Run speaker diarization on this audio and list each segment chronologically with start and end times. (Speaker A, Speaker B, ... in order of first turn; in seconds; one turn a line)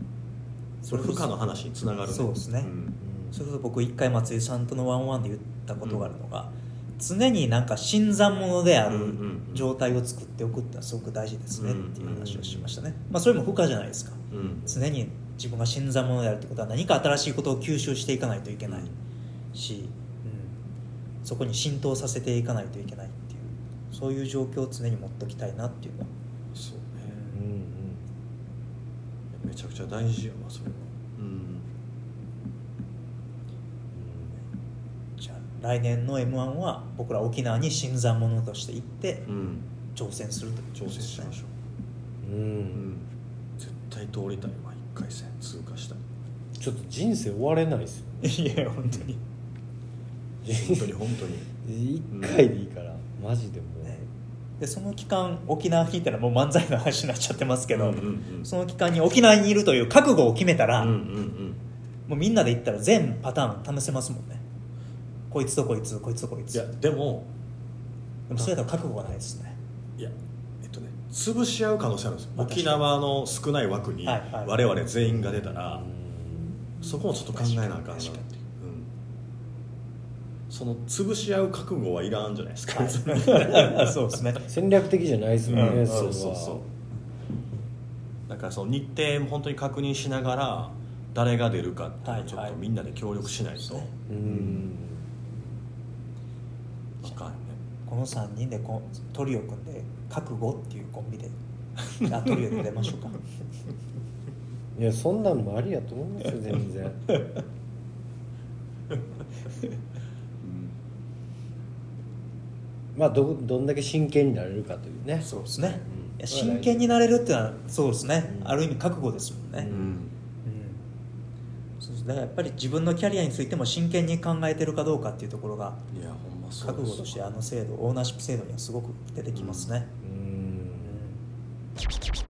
Speaker A: 0.8-1.3
Speaker B: 0.9-3.0
Speaker A: 2.0-2.7
Speaker C: 3.0-3.4
Speaker A: 3.3-18.9
Speaker B: 5.8-6.2
Speaker B: 8.8-9.7
Speaker B: 11.6-12.5
Speaker C: 12.1-12.8
Speaker B: 14.3-14.8
Speaker B: 18.7-18.9
Speaker A: 19.5-20.6
Speaker A: 21.2-26.1
Speaker B: 26.5-27.2
Speaker A: 27.1-27.4
Speaker C: 27.3-28.0
Speaker B: 29.3-31.7
Speaker C: 33.9-34.4
Speaker A: 35.2-39.3
Speaker B: 39.2-39.6
Speaker A: 39.9-41.3
Speaker B: 40.7-41.5
Speaker C: 42.2-43.0
Speaker B: 42.7-43.1
Speaker B: 43.6-46.0
Speaker C: 46.6-48.3
Speaker A: 48.2-49.2
Speaker C: 50.4-50.9
Speaker B: 50.5-51.5
Speaker C: 51.6-54.0
Speaker B: 52.1-52.5
Speaker A: 54.6-61.0
Speaker B: 57.7-58.5
Speaker B: 60.8-61.6
Speaker A: 62.1-64.4
Speaker A: 65.3-66.7
Speaker B: 66.5-67.3
Speaker A: 68.3-69.5
Speaker B: 68.3-69.1
Speaker B: 70.0-75.8
Speaker A: 72.4-72.9
Speaker A: 74.0-74.6
Speaker C: 75.0-76.5
Speaker A: 76.8-78.2
Speaker B: 76.8-78.9
Speaker B: 80.5-84.0
Speaker A: 82.7-84.5
Speaker C: 84.5-86.6
Speaker B: 85.5-86.7
Speaker A: 85.5-86.0
Speaker B: 88.3-94.7
Speaker A: 92.0-92.6
Speaker A: 93.3-93.9
Speaker C: 94.1-95.0
Speaker B: 97.0-97.6
Speaker A: 97.8-101.3
Speaker A: 102.0-103.2
Speaker C: 104.7-107.0
Speaker B: 110.4-110.7
Speaker C: 112.9-117.0
Speaker A: 115.2-119.7
Speaker C: 118.2-118.6
Speaker C: 119.5-120.0
Speaker B: 119.6-120.1
Speaker A: 120.4-120.8
Speaker A: 121.8-125.9
Speaker B: 125.9-127.3
Speaker A: 126.6-129.9
Speaker B: 129.3-129.7
Speaker C: 130.0-131.0
Speaker A: 130.8-131.2